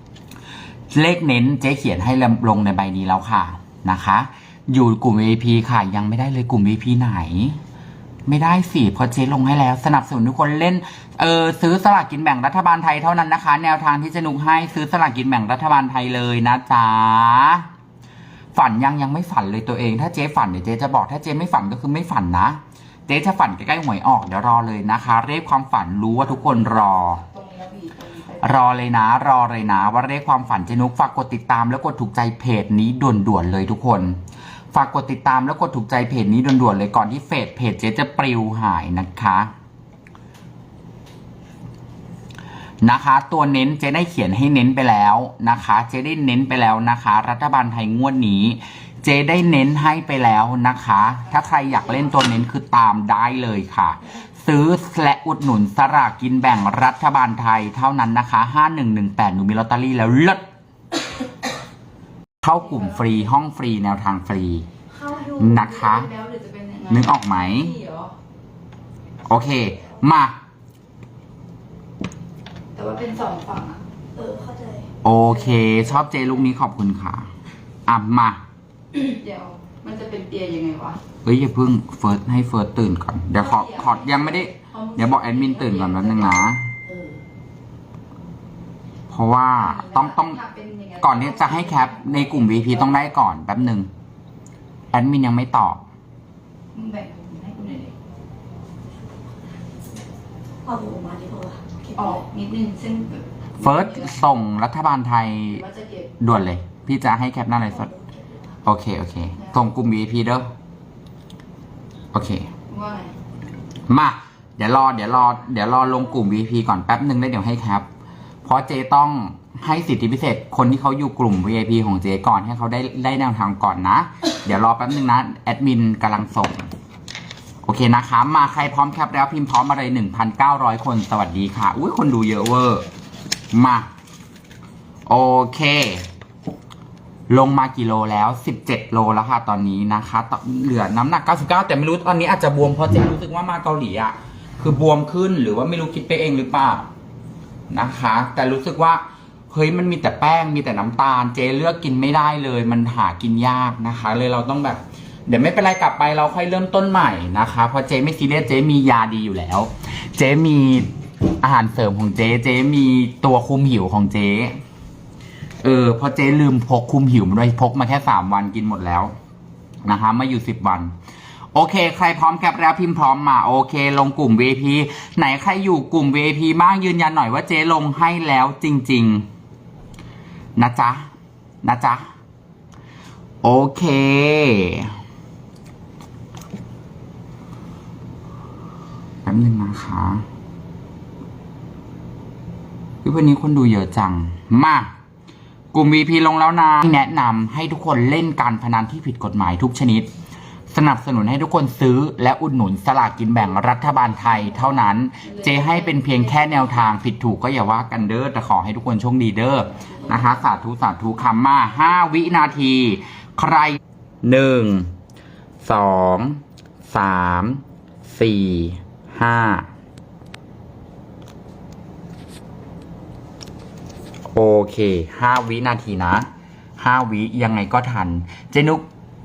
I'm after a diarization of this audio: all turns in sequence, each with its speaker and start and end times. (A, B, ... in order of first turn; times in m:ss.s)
0:00.9-0:07.6 A
0:08.2-0:17.7 A
0:18.5-0:27.2 A
0:26.2-0:28.6 B
0:28.4-0:34.2 A
0:34.7-0:39.5 A
0:42.8-1:00.4 A
0:51.3-0:52.1 B
1:02.4-1:04.6 A
1:02.6-1:03.1 B
1:04.9-1:08.1 B
1:05.3-1:06.1 A
1:06.9-1:07.7 A
1:09.3-1:10.4 A
1:12.7-1:13.8 B
1:14.2-1:14.9 C
1:15.0-1:17.3 A
1:17.9-1:18.4 A
1:18.9-1:21.0 B
1:21.2-1:26.7 A
1:23.4-1:27.1 B
1:29.1-1:30.4 A
1:29.6-1:33.0 B
1:31.0-1:33.9 A
1:34.9-1:35.8 A
1:36.7-1:37.9 B
1:40.6-1:42.2 C
1:41.9-1:44.2 B
1:43.6-1:45.6 A
1:45.5-1:46.1 B
1:46.2-1:47.9 A
1:47.9-1:48.4 C
1:48.6-1:50.5 A
1:52.1-1:52.5 A
1:52.7-1:53.1 B
1:53.9-1:57.9 A
1:58.4-2:06.7 A
2:07.6-2:12.8 A
2:13.5-2:13.9 A
2:15.1-2:16.1 A
2:17.3-2:26.9 A
2:27.7-2:40.9 A
2:41.4-2:44.6 A
2:45.6-2:49.1 A
2:49.8-2:50.9 A
2:51.5-2:59.2 A
3:00.6-3:01.1 A
3:01.6-3:02.0 A
3:03.4-3:04.9 A
3:09.2-3:10.2 A
3:13.0-3:14.9 A
3:15.7-3:20.1 A
3:20.7-3:34.9 A
3:24.5-3:26.9 B
3:29.8-3:30.4 B
3:35.6-3:39.7 A
3:44.3-3:46.3 A
3:46.8-3:48.8 A